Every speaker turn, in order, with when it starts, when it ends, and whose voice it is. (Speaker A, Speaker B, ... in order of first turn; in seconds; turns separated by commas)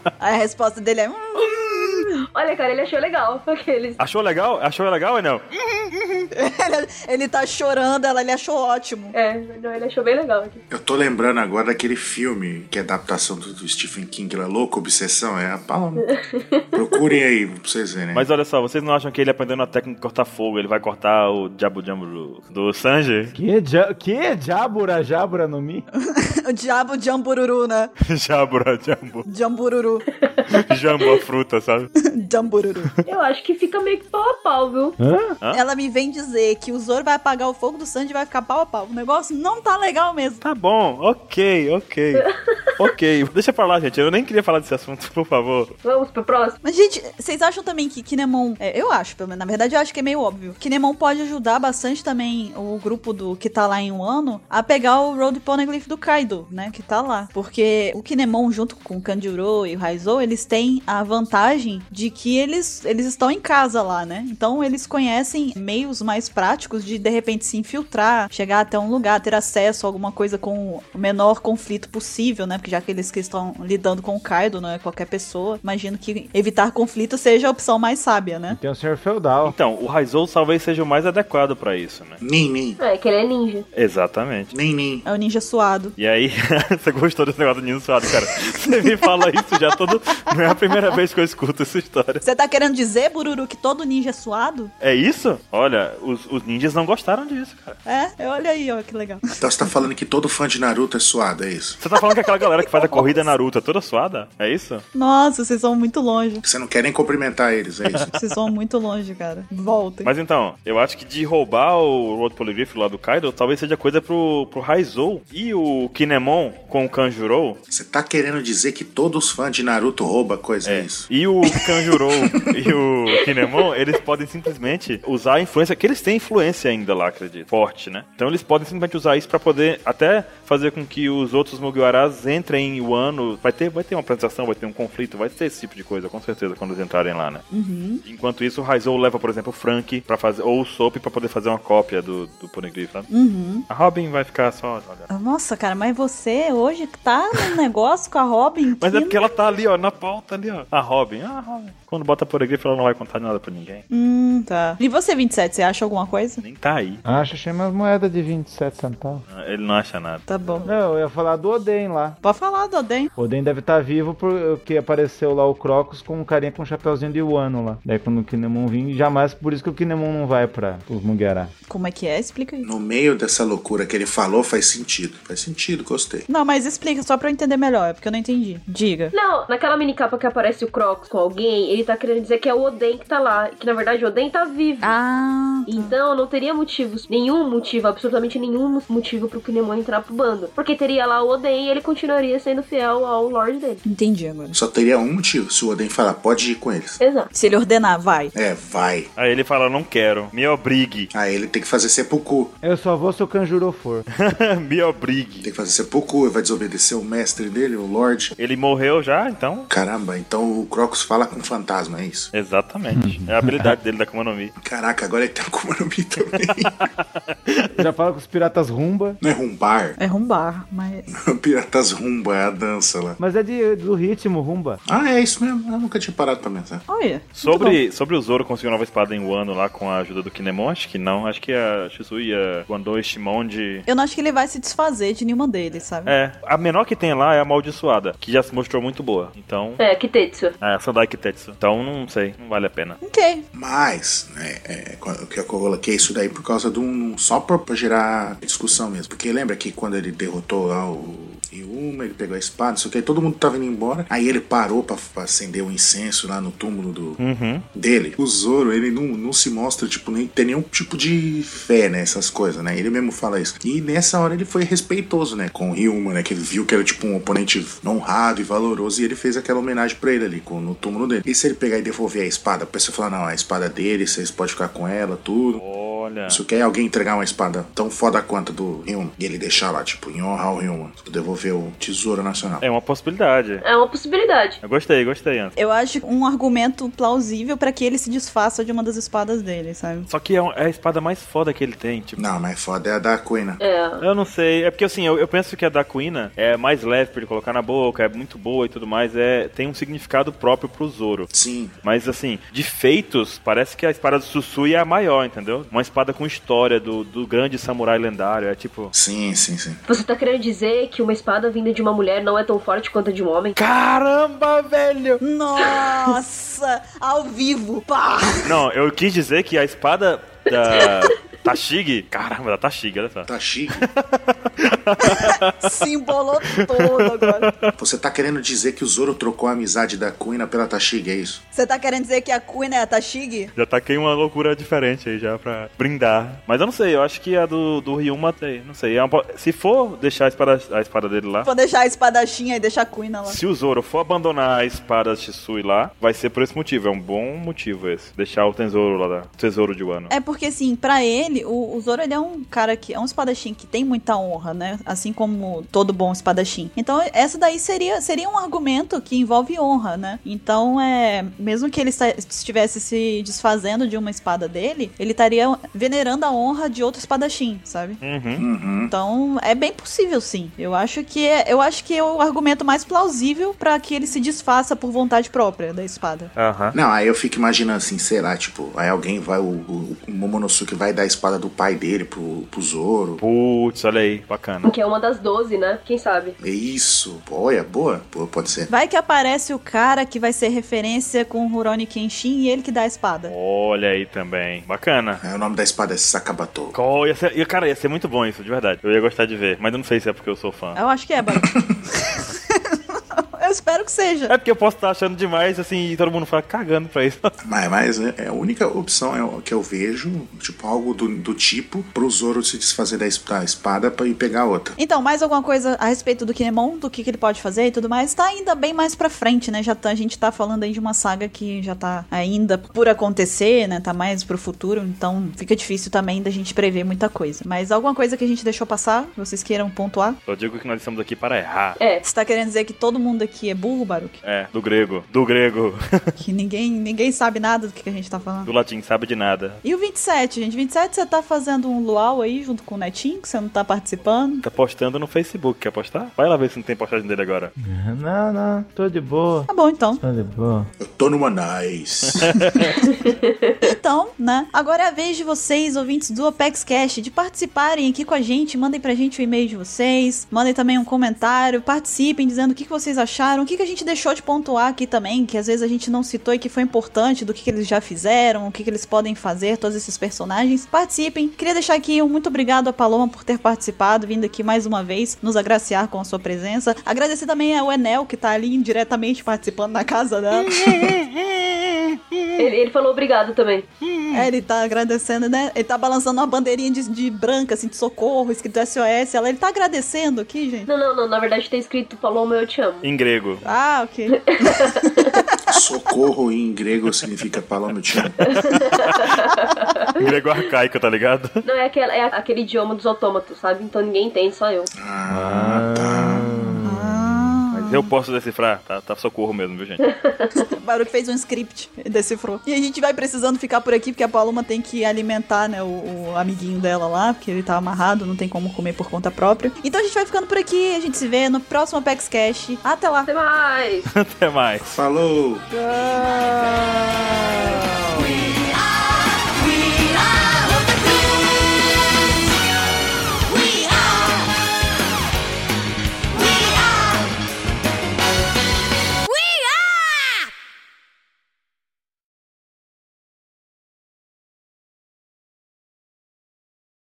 Speaker A: 0.2-2.2, Speaker B: 1.4-4.0, Speaker C: 4.0-6.2, Speaker A: 6.3-9.1, Speaker B: 9.1-10.6, Speaker D: 10.7-16.0, Speaker B: 16.0-17.0, Speaker D: 16.7-18.2, Speaker C: 18.1-23.4, Speaker E: 23.3-25.8, Speaker A: 26.0-27.9, Speaker C: 28.0-29.2, Speaker A: 29.2-30.0, Speaker B: 30.2-30.5, Speaker C: 30.5-31.9, Speaker A: 32.0-32.9, Speaker B: 33.0-35.0, Speaker E: 35.0-35.4, Speaker A: 35.5-40.4, Speaker C: 40.4-42.2, Speaker B: 42.1-42.7, Speaker C: 42.8-45.7, Speaker B: 45.8-46.6, Speaker A: 46.6-78.6, Speaker E: 78.5-79.5, Speaker C: 79.4-82.2, Speaker D: 82.2-82.8, Speaker B: 82.8-83.7, Speaker C: 83.7-84.5, Speaker D: 84.5-85.0, Speaker A: 85.0-85.9, Speaker C: 86.0-92.2, Speaker A: 92.2-94.7, Speaker C: 94.8-97.8, Speaker A: 97.8-99.7, Speaker D: 99.4-101.8, Speaker C: 101.8-104.8, Speaker A: 102.1-103.3, Speaker A: 104.9-106.4, Speaker D: 106.4-108.1, Speaker A: 108.1-110.1, Speaker C: 110.0-117.6, Speaker D: 117.7-121.1, Speaker C: 120.6-137.4, Speaker D: 122.1-122.4, Speaker A: 137.5-138.0, Speaker C: 138.0-143.1, Speaker A: 143.1-143.7, Speaker C: 143.7-145.1, Speaker A: 145.1-149.5, Speaker C: 148.8-153.8, Speaker A: 153.9-156.4, Speaker C: 156.4-157.0, Speaker E: 157.0-159.2, Speaker C: 159.3-160.3, Speaker A: 160.3-160.7, Speaker E: 160.6-162.2, Speaker A: 162.2-163.1, Speaker E: 163.2-171.5, Speaker A: 171.7-172.7, Speaker D: 172.6-176.3, Speaker A: 176.3-179.1, Speaker B: 179.1-184.9, Speaker A: 184.8-185.9, Speaker B: 185.7-193.8, Speaker A: 193.8-194.6, Speaker D: 194.5-197.0, Speaker B: 197.0-197.3, Speaker A: 197.3-198.3, Speaker D: 198.3-199.1, Speaker C: 199.2-201.1, Speaker D: 201.1-202.5, Speaker E: 202.6-204.0, Speaker C: 204.1-205.5, Speaker D: 205.4-208.3, Speaker C: 208.4-209.7, Speaker D: 209.7-212.3, Speaker C: 212.3-214.5, Speaker E: 212.9-213.7, Speaker D: 214.6-216.9, Speaker C: 216.8-217.8, Speaker E: 217.8-219.2, Speaker D: 219.2-219.9, Speaker A: 220.0-221.1, Speaker D: 221.1-223.2, Speaker E: 223.2-224.8, Speaker D: 224.8-226.8, Speaker A: 226.9-227.8, Speaker C: 227.4-233.9, Speaker A: 233.9-236.1, Speaker C: 236.1-239.8, Speaker B: 239.8-240.6, Speaker C: 240.6-243.0, Speaker A: 243.0-243.4, Speaker D: 243.5-257.2, Speaker C: 257.2-257.6, Speaker D: 257.7-275.6, Speaker C: 275.6-276.4, Speaker D: 276.3-282.6, Speaker C: 282.6-283.6, Speaker B: 283.6-284.6, Speaker C: 284.6-285.5, Speaker A: 285.6-290.1, Speaker C: 290.1-292.2, Speaker D: 292.2-293.6, Speaker B: 293.6-294.0, Speaker C: 294.0-301.3, Speaker D: 301.3-301.7, Speaker C: 301.8-308.9, Speaker D: 308.9-309.8, Speaker B: 309.9-313.6, Speaker C: 313.6-315.2, Speaker A: 315.2-318.5, Speaker C: 318.4-325.7, Speaker B: 320.6-321.1, Speaker D: 323.3-323.8, Speaker A: 325.0-327.5, Speaker C: 326.5-327.7, Speaker D: 327.8-331.4, Speaker A: 331.5-333.5, Speaker C: 333.6-341.5, Speaker A: 341.4-343.4, Speaker C: 343.3-350.1, Speaker A: 350.1-368.0, Speaker C: 368.0-368.4, Speaker D: 368.4-368.9, Speaker A: 368.9-376.3, Speaker C: 376.4-376.8, Speaker D: 376.7-383.2, Speaker C: 383.2-384.7, Speaker B: 384.6-386.4, Speaker D: 386.4-388.7, Speaker A: 388.7-393.3, Speaker C: 393.3-395.2, Speaker D: 395.2-396.7, Speaker C: 396.7-400.8, Speaker A: 400.8-401.5, Speaker D: 401.4-401.7, Speaker A: 402.1-404.3, Speaker C: 404.3-407.3, Speaker D: 407.4-414.7, Speaker A: 414.8-430.2, Speaker C: 430.3-431.8, Speaker B: 431.8-432.0, Speaker A: 432.0-434.2, Speaker C: 434.2-436.1, Speaker A: 436.2-438.5, Speaker C: 438.4-439.6, Speaker A: 439.6-444.4, Speaker C: 444.4-447.5, Speaker E: 447.6-449.5, Speaker A: 449.5-450.0, Speaker E: 450.0-450.7, Speaker D: 450.8-452.6, Speaker C: 452.2-452.8, Speaker B: 452.8-453.6, Speaker A: 453.6-480.9, Speaker C: 480.4-482.4, Speaker B: 482.4-483.7, Speaker C: 483.8-484.3, Speaker A: 484.1-490.7, Speaker B: 490.6-492.9, Speaker C: 492.8-493.4, Speaker A: 493.4-495.5, Speaker B: 494.3-495.1, Speaker D: 495.5-498.2, Speaker B: 498.2-500.1, Speaker C: 498.2-499.2, Speaker C: 499.9-501.4, Speaker B: 501.4-504.7, Speaker D: 504.7-506.3, Speaker E: 505.1-507.4, Speaker A: 506.6-507.9, Speaker C: 507.5-509.8, Speaker B: 509.8-510.5, Speaker A: 510.4-523.1, Speaker B: 523.0-523.9, Speaker C: 523.9-524.7, Speaker D: 524.6-525.4, Speaker E: 525.5-528.3, Speaker E: 529.7-530.3